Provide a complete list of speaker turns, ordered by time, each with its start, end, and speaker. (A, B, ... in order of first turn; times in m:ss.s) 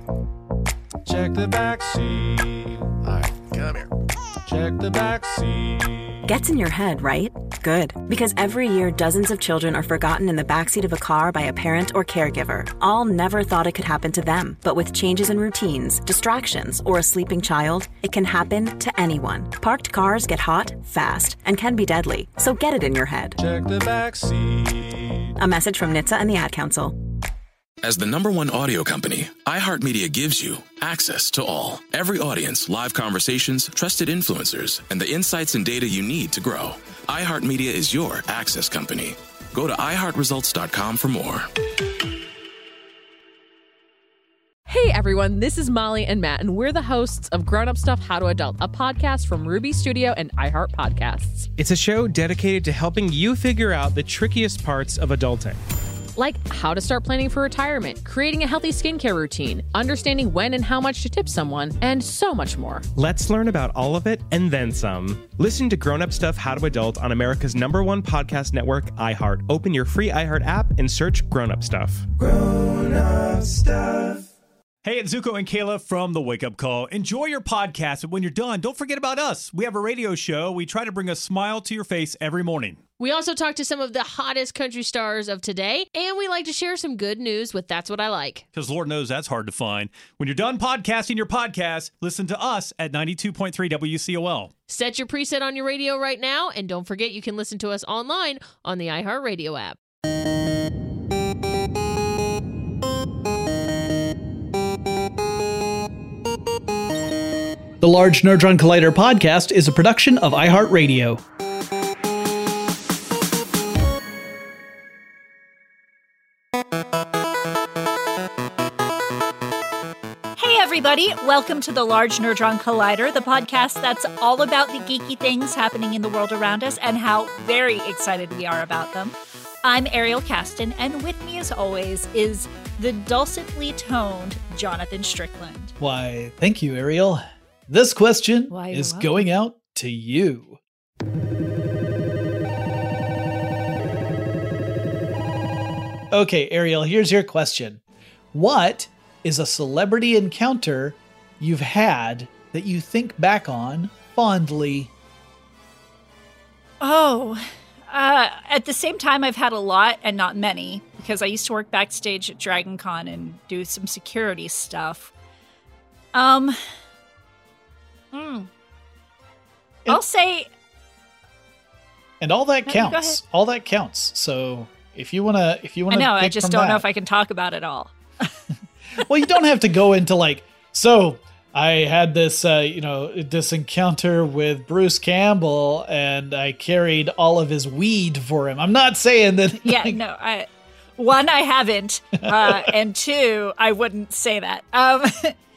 0:01.0-0:03.6 A
0:04.4-0:06.3 A
0:06.3-0:23.4 B
0:23.4-0:25.3 A
0:25.4-0:26.9 B
0:27.8-0:41.5 C
0:44.7-0:51.5 D
0:51.6-0:55.6 E
0:56.2-1:02.9 D
1:03.0-1:12.0 E
1:14.8-1:22.8 F
1:23.0-1:28.4 G
1:28.5-1:34.5 F
1:34.7-1:39.8 G
1:47.8-1:51.2 H
2:00.4-2:15.7 I
2:15.8-2:20.6 H
2:18.5-2:19.2 I
2:26.1-2:27.8 H
2:28.3-2:34.9 H
2:36.8-2:45.1 I
2:46.1-2:46.7 I
2:48.1-2:48.5 I
2:49.9-2:50.5 I
2:52.2-2:56.8 H
2:52.7-2:53.2 I
2:55.9-2:58.3 I
2:59.0-3:10.0 H
3:09.6-3:15.3 I
3:12.2-3:12.7 H